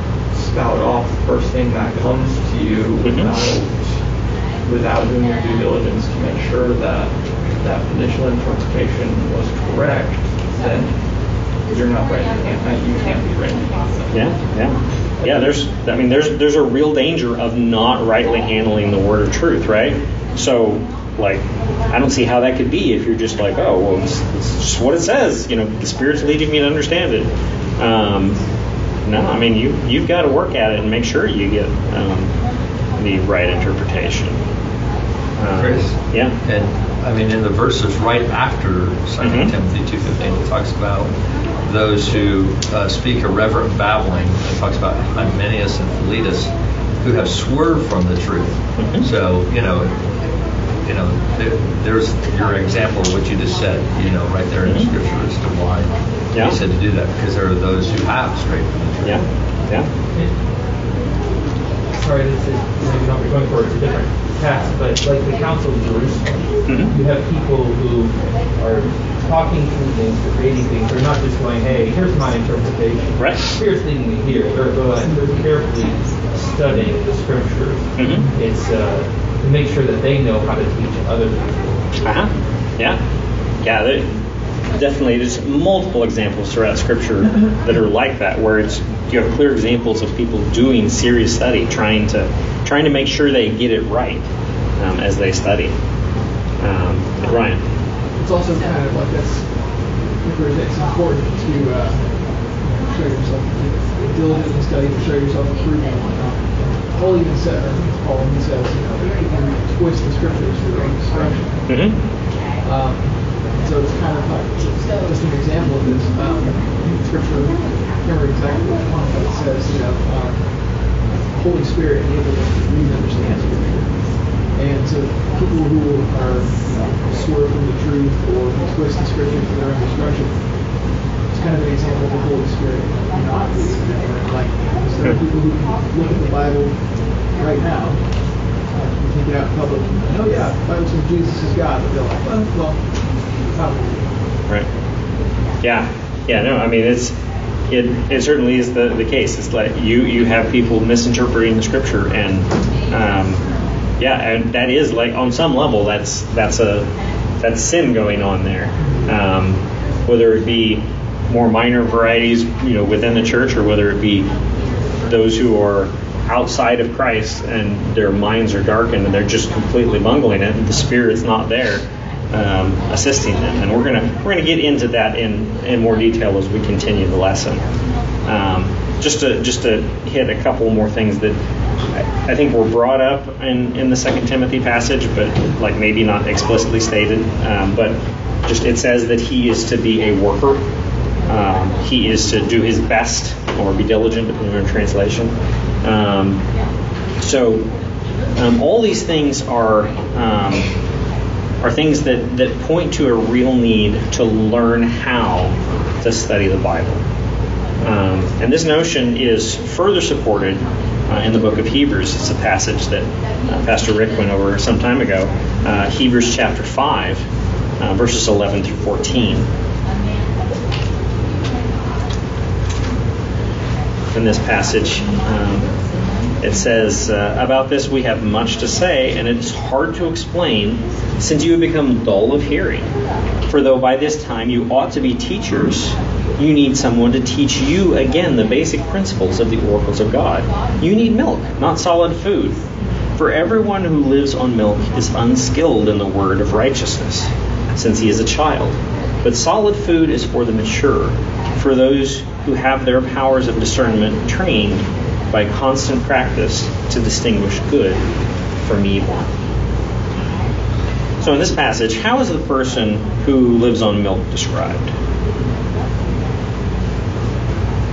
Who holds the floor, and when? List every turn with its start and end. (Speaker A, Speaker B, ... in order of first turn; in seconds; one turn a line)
Speaker A: 0.3-3.9
Speaker B: 3.0-3.3
Speaker A: 4.7-10.9
Speaker A: 11.7-14.1
Speaker B: 14.1-28.4
Speaker A: 15.2-15.5
Speaker B: 29.1-32.3
Speaker B: 33.0-34.4
Speaker B: 35.4-36.4
Speaker C: 35.5-41.1
Speaker B: 39.2-39.5
Speaker C: 41.7-46.5
Speaker C: 47.0-49.9
Speaker B: 48.8-49.1
Speaker C: 50.8-59.2
Speaker B: 54.6-54.9
Speaker B: 59.0-59.9
Speaker D: 61.9-81.9
Speaker B: 66.7-66.9
Speaker B: 73.2-73.5
Speaker B: 78.0-78.3
Speaker B: 82.0-83.0
Speaker B: 83.6-84.2
Speaker B: 84.7-94.3
Speaker B: 94.8-95.8
Speaker B: 96.6-97.6
Speaker E: 98.2-99.5
Speaker E: 100.2-111.7
Speaker B: 111.7-112.0
Speaker E: 112.6-120.5
Speaker E: 121.3-130.4
Speaker E: 131.3-136.8
Speaker E: 137.3-138.1
Speaker E: 138.7-142.9
Speaker E: 143.5-144.0
Speaker B: 145.6-147.2
Speaker B: 147.7-153.4
Speaker B: 154.0-156.9
Speaker B: 157.4-164.3
Speaker B: 165.0-177.7
Speaker B: 178.3-181.4
Speaker B: 181.9-190.6
Speaker B: 191.3-196.4
Speaker B: 197.2-197.7
Speaker B: 198.4-200.7
Speaker B: 201.6-207.0
Speaker B: 207.8-217.3
Speaker B: 217.8-219.5
Speaker B: 224.1-225.8
Speaker B: 226.4-232.9
Speaker B: 233.5-242.6
Speaker B: 243.2-258.0
Speaker B: 258.6-259.3
Speaker B: 261.2-264.9